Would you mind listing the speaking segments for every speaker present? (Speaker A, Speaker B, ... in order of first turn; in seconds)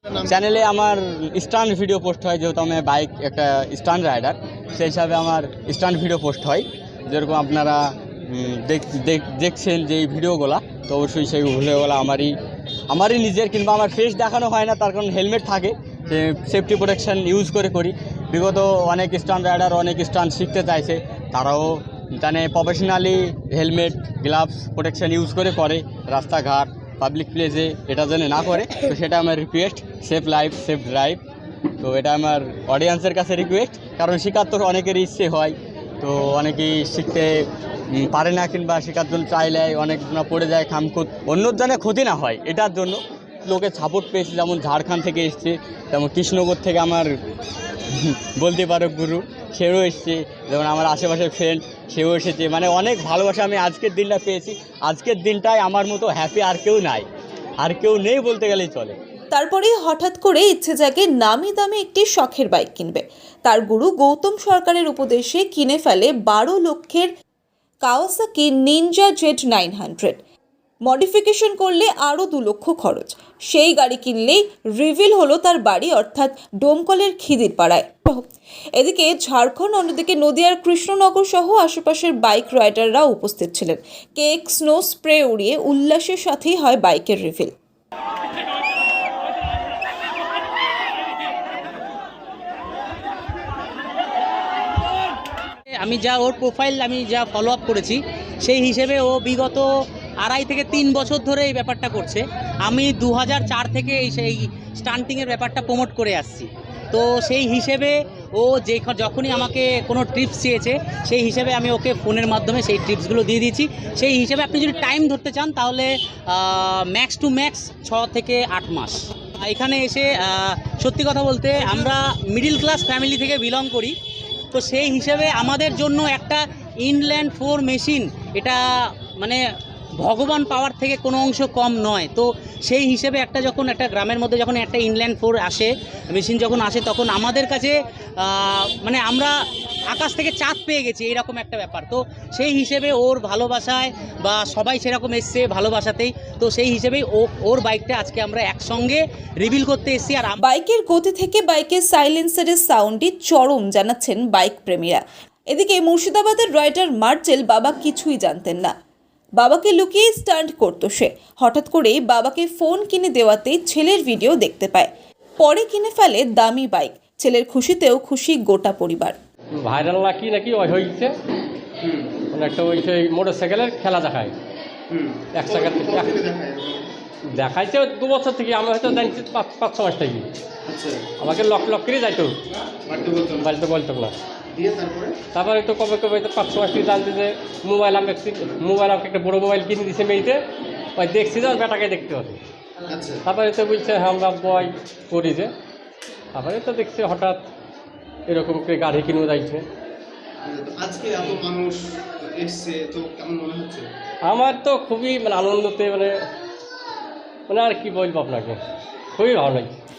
Speaker A: 0.2-12.3, 12.9-31.2, 31.8-47.1, 47.9-57.1, 57.6-59.0
Speaker B: 59.3-67.1, 67.8-70.2, 70.8-87.5, 150.4-158.7, 159.4-169.2
Speaker C: 95.7-99.7, 100.2-124.0, 124.5-128.6, 129.2-129.4, 130.0-139.3, 139.9-150.4
Speaker D: 169.6-171.1, 172.3-174.3, 175.3-176.2, 177.3-180.3, 181.2-182.3, 183.4-184.2, 185.3-190.4, 191.0-192.4, 193.2-195.5, 196.3-197.5, 198.3-199.6, 204.2-206.1, 207.5-208.6, 209.2-209.7
Speaker E: 171.8-172.2, 174.9-176.9, 180.7-181.1, 182.8-183.5, 184.5-185.2, 192.9-193.2, 200.4-203.9